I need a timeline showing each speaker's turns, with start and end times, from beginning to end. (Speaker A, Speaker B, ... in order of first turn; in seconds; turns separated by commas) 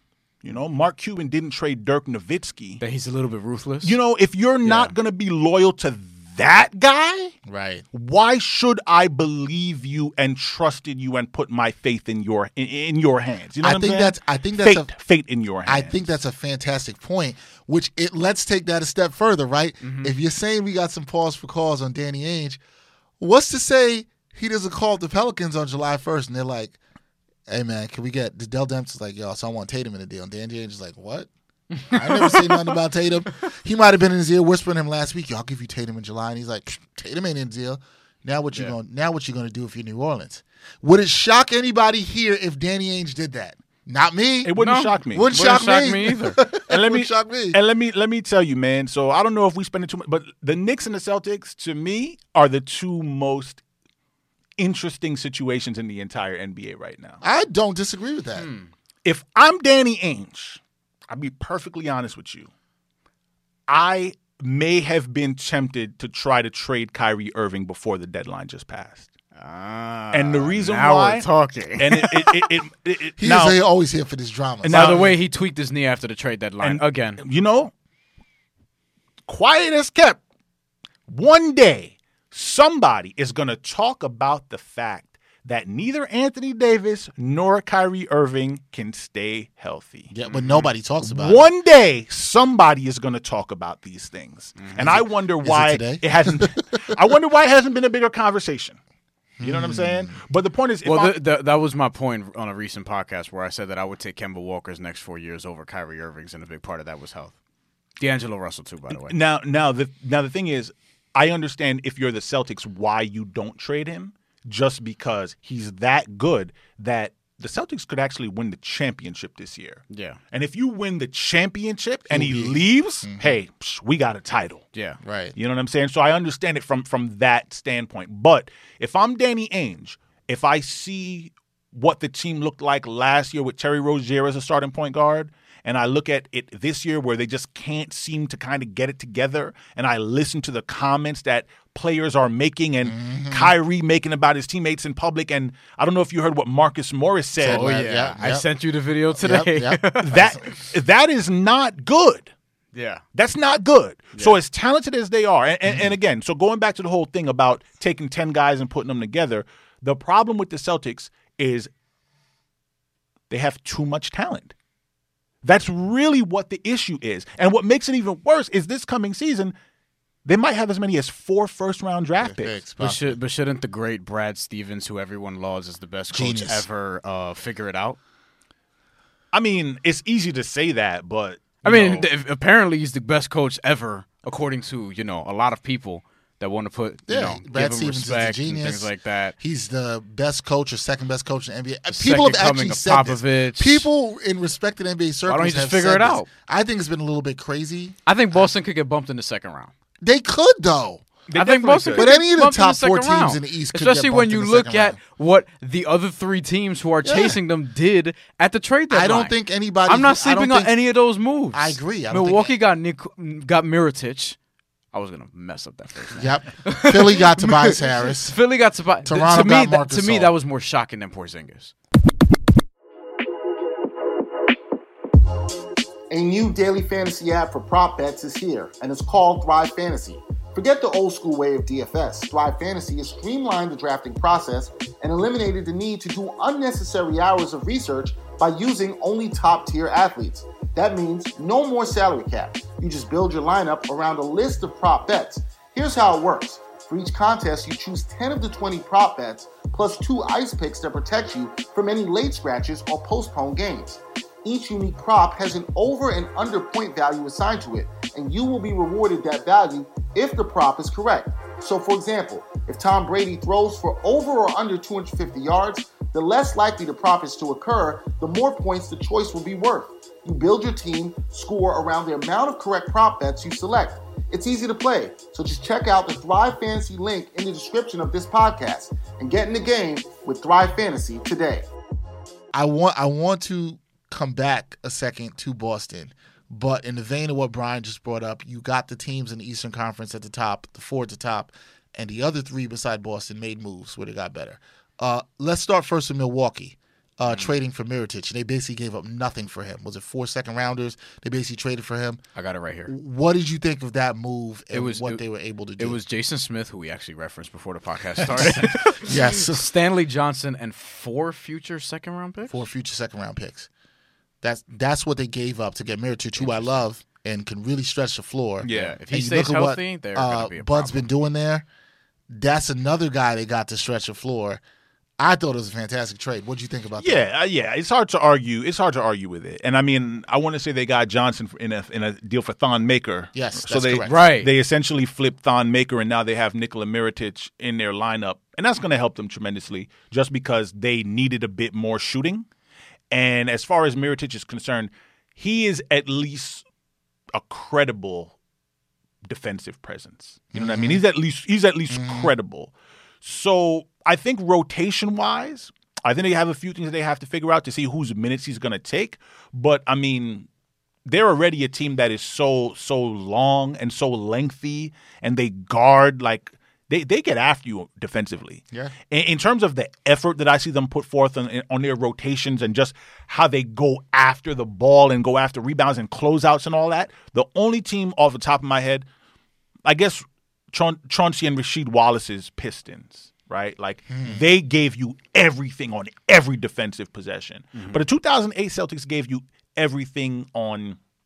Speaker A: 0.4-2.8, Speaker B: 2.8-4.0, Speaker A: 3.8-7.3, Speaker B: 4.6-4.9, Speaker C: 7.5-7.8, Speaker A: 7.9-16.0, Speaker C: 13.6-14.9, Speaker C: 15.7-22.6, Speaker B: 19.8-20.1, Speaker C: 23.2-26.8, Speaker C: 27.5-31.3, Speaker B: 31.7-32.7, Speaker C: 31.9-44.5, Speaker A: 44.4-45.4, Speaker B: 44.5-46.4, Speaker C: 45.1-47.6, Speaker A: 46.5-53.6, Speaker A: 54.6-57.2, Speaker C: 57.2-58.5, Speaker B: 58.4-58.7, Speaker A: 59.0-62.5, Speaker A: 63.7-69.1, Speaker B: 69.3-72.5, Speaker A: 70.1-71.3, Speaker A: 71.8-73.6, Speaker C: 73.2-75.0, Speaker A: 74.6-75.2, Speaker B: 74.7-77.2, Speaker A: 76.6-77.7, Speaker A: 79.3-80.2, Speaker A: 81.1-90.1, Speaker C: 90.1-91.5, Speaker B: 90.3-90.7, Speaker A: 91.0-98.8, Speaker B: 94.6-94.8, Speaker C: 94.8-97.0, Speaker C: 99.4-100.1, Speaker A: 99.4-101.2, Speaker B: 100.8-107.3, Speaker B: 108.0-109.1, Speaker A: 108.9-124.7, Speaker B: 119.9-120.2, Speaker C: 122.1-123.4, Speaker B: 124.7-125.0, Speaker C: 125.0-125.3, Speaker A: 125.3-147.7, Speaker C: 142.8-143.5, Speaker C: 147.4-148.4, Speaker B: 147.4-150.6, Speaker C: 149.2-150.4, Speaker A: 150.0-152.3, Speaker B: 152.7-153.0, Speaker A: 153.1-161.7, Speaker C: 155.7-155.9, Speaker A: 163.3-164.5, Speaker A: 165.4-169.5, Speaker A: 170.2-172.5, Speaker C: 172.2-173.2, Speaker B: 172.8-178.0, Speaker C: 176.1-176.7, Speaker A: 179.3-182.1, Speaker B: 181.6-189.3, Speaker C: 187.1-198.5, Speaker B: 191.9-193.9, Speaker B: 195.2-196.3, Speaker B: 198.1-199.7, Speaker C: 200.0-201.0, Speaker A: 201.3-202.1, Speaker B: 201.3-209.3, Speaker C: 201.9-205.0, Speaker C: 207.0-207.4, Speaker C: 208.9-210.7, Speaker B: 209.8-214.4, Speaker C: 211.5-212.5, Speaker B: 214.9-221.7, Speaker C: 216.1-218.3, Speaker C: 219.1-220.3, Speaker C: 226.1-281.7, Speaker C: 282.5-302.2, Speaker B: 297.3-297.5, Speaker B: 302.4-302.9, Speaker C: 302.9-306.0, Speaker B: 304.7-305.2, Speaker B: 305.8-312.6, Speaker C: 308.3-309.7, Speaker C: 312.5-313.7, Speaker C: 314.4-321.6, Speaker B: 316.4-316.7, Speaker A: 318.6-319.0, Speaker B: 318.6-321.1, Speaker C: 322.3-324.6, Speaker C: 325.2-327.3, Speaker A: 327.0-342.4, Speaker C: 333.3-334.1, Speaker B: 334.0-334.5, Speaker A: 343.1-346.6, Speaker A: 347.3-348.3, Speaker A: 349.3-360.5, Speaker C: 350.5-351.0, Speaker C: 351.9-352.3, Speaker A: 361.1-379.0, Speaker A: 379.8-391.0, Speaker C: 384.1-384.4, Speaker B: 387.7-388.0